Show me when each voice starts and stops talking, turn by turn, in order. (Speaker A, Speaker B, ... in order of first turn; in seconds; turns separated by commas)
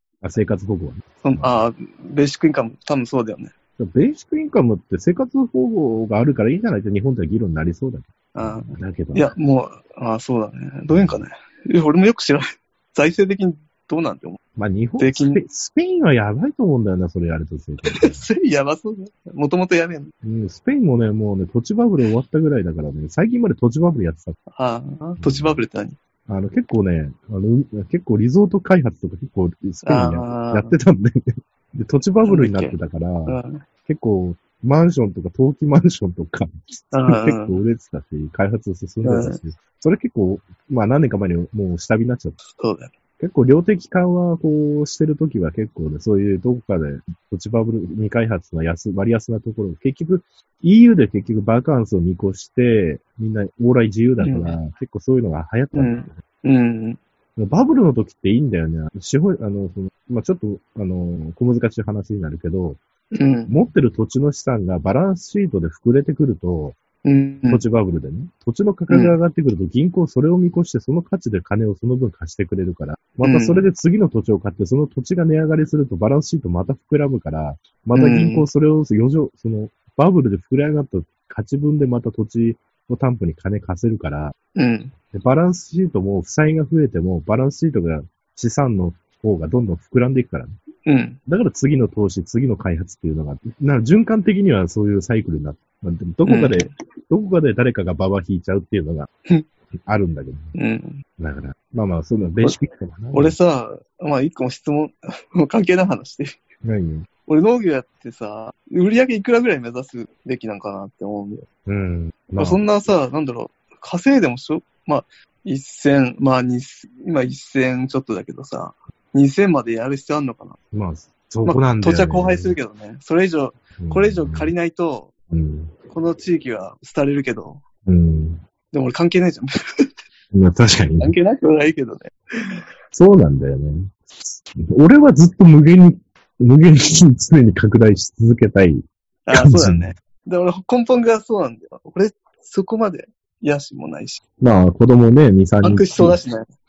Speaker A: 0.2-1.6, Speaker B: 1.2-3.5, Speaker A: 3.8-9.3, Speaker B: 8.3-14.4, Speaker A: 10.9-11.2, Speaker A: 14.6-18.3, Speaker B: 15.0-15.4, Speaker B: 17.8-20.1, Speaker A: 20.2-24.4, Speaker B: 24.5-26.0, Speaker A: 25.2-25.6, Speaker A: 26.3-42.4, Speaker B: 29.8-30.8, Speaker B: 32.2-32.8, Speaker B: 33.3-33.6, Speaker B: 36.9-37.6, Speaker B: 39.0-39.4, Speaker B: 42.4-42.9, Speaker A: 43.2-56.2, Speaker B: 54.2-54.5, Speaker B: 55.7-57.0, Speaker A: 57.4-62.8, Speaker B: 63.1-63.5, Speaker A: 63.5-66.8, Speaker B: 67.0-67.6, Speaker A: 67.5-84.3, Speaker B: 68.9-69.2, Speaker B: 73.2-73.7, Speaker B: 77.9-78.5, Speaker B: 84.5-84.9, Speaker A: 85.1-90.5, Speaker B: 90.8-91.2, Speaker A: 91.3-99.1, Speaker B: 96.2-96.7, Speaker A: 99.8-100.5, Speaker B: 100.5-101.0, Speaker A: 101.2-103.3, Speaker B: 103.1-106.4, Speaker A: 106.6-107.1, Speaker B: 107.3-111.5, Speaker A: 111.7-112.6, Speaker B: 112.4-120.6, Speaker A: 120.7-122.6, Speaker B: 121.4-125.1, Speaker A: 123.8-124.5, Speaker A: 125.3-125.7, Speaker B: 125.9-127.6, Speaker A: 127.8-128.4, Speaker B: 128.7-129.5, Speaker A: 130.3-131.1, Speaker B: 131.0-132.6, Speaker A: 132.9-139.9, Speaker B: 139.2-144.2, Speaker A: 144.4-146.2, Speaker B: 145.6-146.5